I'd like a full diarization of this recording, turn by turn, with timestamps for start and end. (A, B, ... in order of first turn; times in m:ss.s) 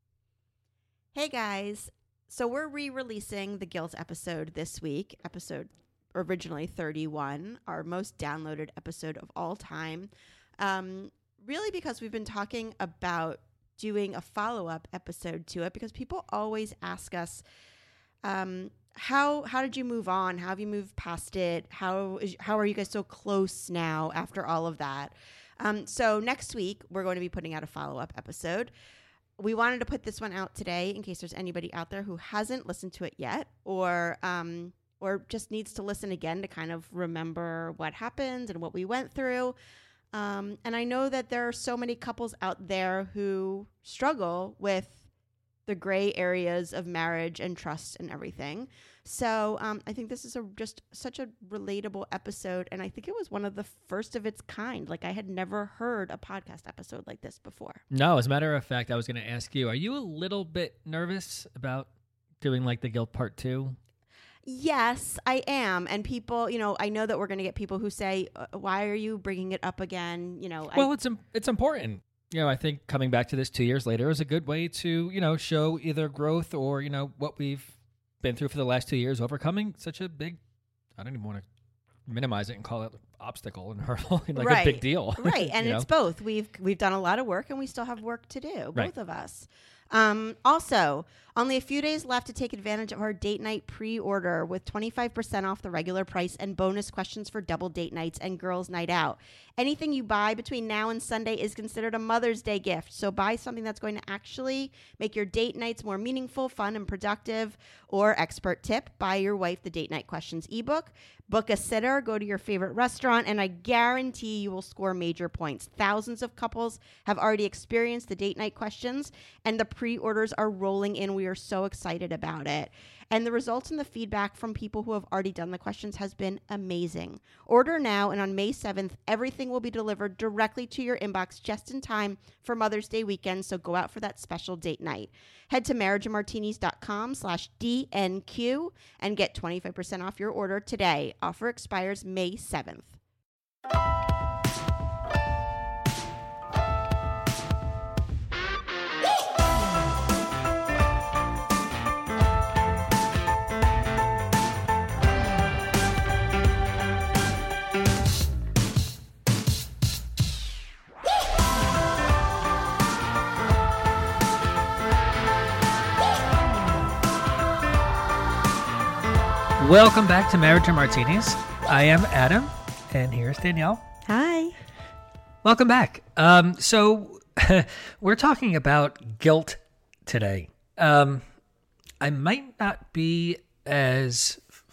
0:01.1-0:17.4 A
0:18.2-0:28.7 A
0:29.4-0:39.5 A
0:40.1-0:45.1 A
0:45.7-0:57.8 A
0:57.9-1:01.9 B
1:02.4-1:03.8 B
1:04.5-1:10.9 A
1:10.7-1:20.4 B
1:21.0-1:21.4 B
1:22.1-1:25.8 B
1:24.4-2:23.0 A
2:49.6-2:53.8 B
2:54.1-2:54.5 A
2:55.4-3:01.2 B
3:02.0-3:04.4 B